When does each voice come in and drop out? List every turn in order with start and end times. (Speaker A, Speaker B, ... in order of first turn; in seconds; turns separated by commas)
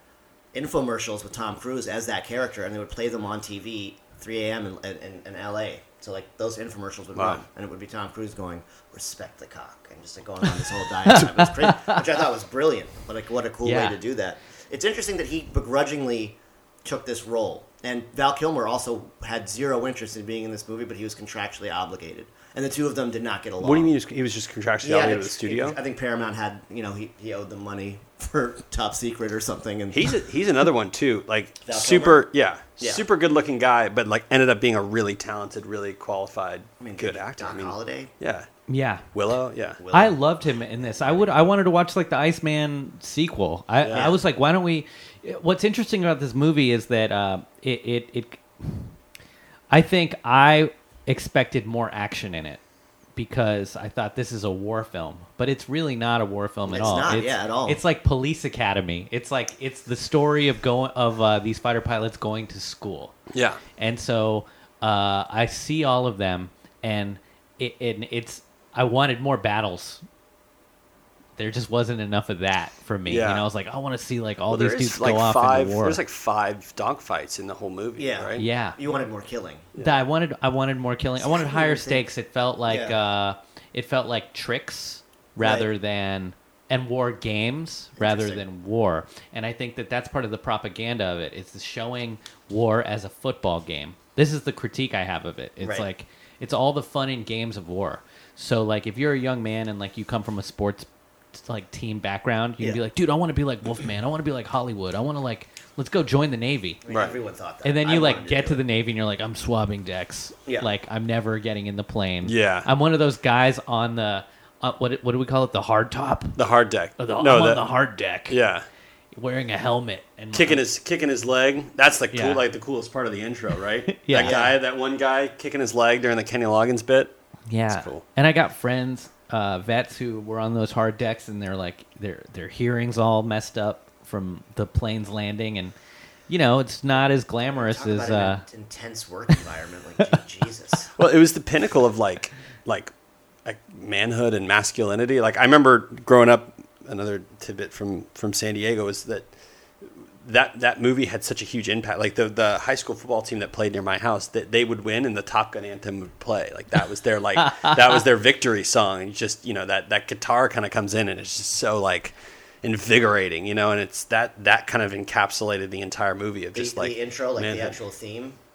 Speaker A: 0.5-23.9, Speaker B: 11.1-12.0, Speaker B: 13.6-14.0, Speaker C: 23.6-25.8, Speaker A: 24.8-30.1, Speaker C: 29.9-38.5, Speaker A: 31.6-32.2, Speaker A: 36.8-38.1, Speaker B: 38.7-39.1, Speaker C: 39.1-39.8, Speaker A: 39.8-40.2, Speaker B: 39.9-48.9, Speaker A: 40.8-41.4, Speaker C: 43.8-44.1, Speaker A: 43.9-44.2, Speaker B: 49.7-52.6, Speaker B: 53.1-63.1, Speaker A: 56.7-57.8, Speaker C: 63.3-63.6, Speaker B: 63.8-70.0, Speaker B: 71.4-76.0, Speaker C: 73.1-73.4, Speaker C: 74.5-78.4, Speaker A: 78.0-79.7, Speaker B: 78.4-78.8, Speaker B: 79.8-106.8, Speaker A: 81.2-82.0, Speaker A: 82.7-83.0, Speaker A: 85.4-85.7, Speaker A: 88.0-88.4, Speaker A: 95.6-95.9, Speaker A: 106.8-108.6, Speaker C: 106.9-107.1, Speaker B: 107.6-116.4, Speaker C: 112.2-112.7, Speaker C: 116.4-117.7, Speaker B: 117.0-118.4, Speaker C: 118.3-118.7, Speaker B: 119.1-120.6, Speaker C: 120.3-127.1, Speaker B: 122.1-122.4, Speaker B: 123.9-124.4, Speaker A: 124.1-124.5, Speaker B: 127.5-135.7, Speaker C: 127.7-128.0, Speaker B: 136.3-138.4, Speaker A: 137.5-140.9, Speaker C: 141.0-142.9, Speaker C: 143.4-149.3, Speaker C: 149.8-167.8, Speaker B: 157.4-157.7, Speaker A: 166.5-168.4